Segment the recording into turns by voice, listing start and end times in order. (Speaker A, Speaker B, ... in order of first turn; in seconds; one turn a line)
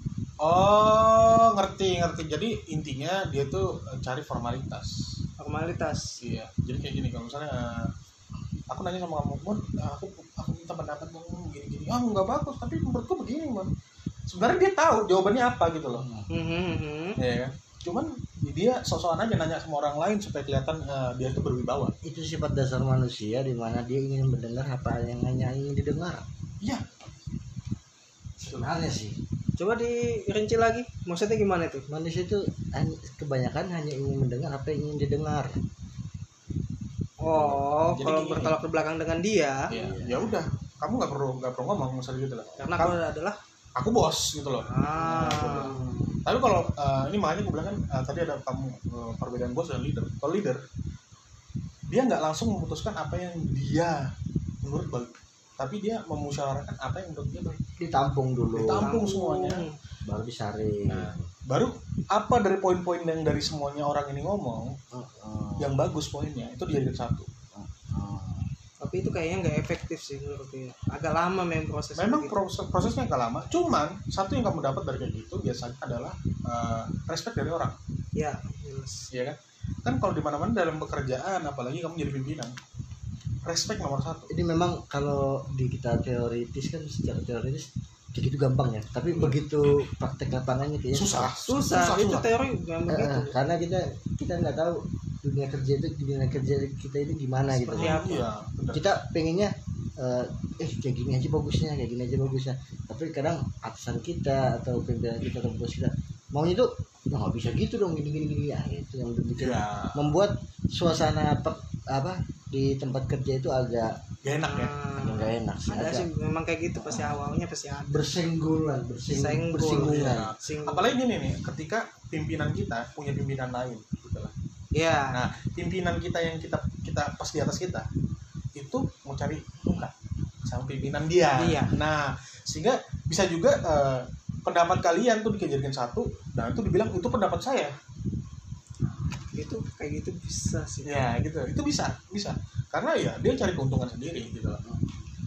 Speaker A: 0.4-4.9
Speaker B: 5.4-6.1
Speaker A: 6.2-7.9
Speaker A: 8.7-13.7
Speaker A: 14.3-16.1
Speaker C: 15.9-16.3
Speaker B: 16.3-17.2
Speaker A: 17.2-21.9
Speaker C: 22.0-26.2
Speaker A: 28.4-28.7
Speaker C: 28.5-29.2
Speaker B: 29.6-31.9
Speaker C: 31.9-35.6
Speaker B: 37.2-39.7
Speaker A: 37.3-38.6
Speaker A: 39.7-42.9
Speaker C: 39.7-40.3
Speaker B: 42.6-43.4
Speaker A: 43.8-50.6
Speaker B: 44.6-45.8
Speaker C: 45.0-46.2
Speaker A: 51.9-54.1
Speaker A: 54.6-57.6
Speaker C: 57.8-58.9
Speaker A: 58.5-59.6
Speaker B: 58.8-59.8
Speaker C: 60.0-61.3
Speaker A: 60.9-64.8
Speaker C: 64.9-65.8
Speaker A: 65.6-67.3
Speaker C: 67.5-68.5
Speaker B: 68.8-72.3
Speaker A: 72.0-77.8
Speaker B: 78.1-79.1
Speaker A: 79.1-82.5
Speaker A: 83.4-84.3
Speaker C: 84.3-91.3
Speaker A: 89.1-89.4
Speaker A: 90.9-92.3
Speaker B: 91.5-93.3
Speaker C: 92.9-98.0
Speaker B: 97.5-98.3
Speaker A: 97.7-98.9
Speaker C: 98.7-114.0
Speaker A: 109.4-110.1
Speaker A: 114.2-114.7
Speaker B: 114.4-118.1
Speaker C: 115.0-116.1
Speaker C: 117.8-120.3
Speaker B: 119.1-120.8
Speaker A: 119.7-124.3
Speaker B: 124.7-125.2
Speaker A: 125.1-127.9
Speaker A: 128.5-129.9
Speaker A: 130.4-137.7
Speaker B: 131.3-131.7
Speaker B: 139.3-140.9
Speaker A: 140.8-144.6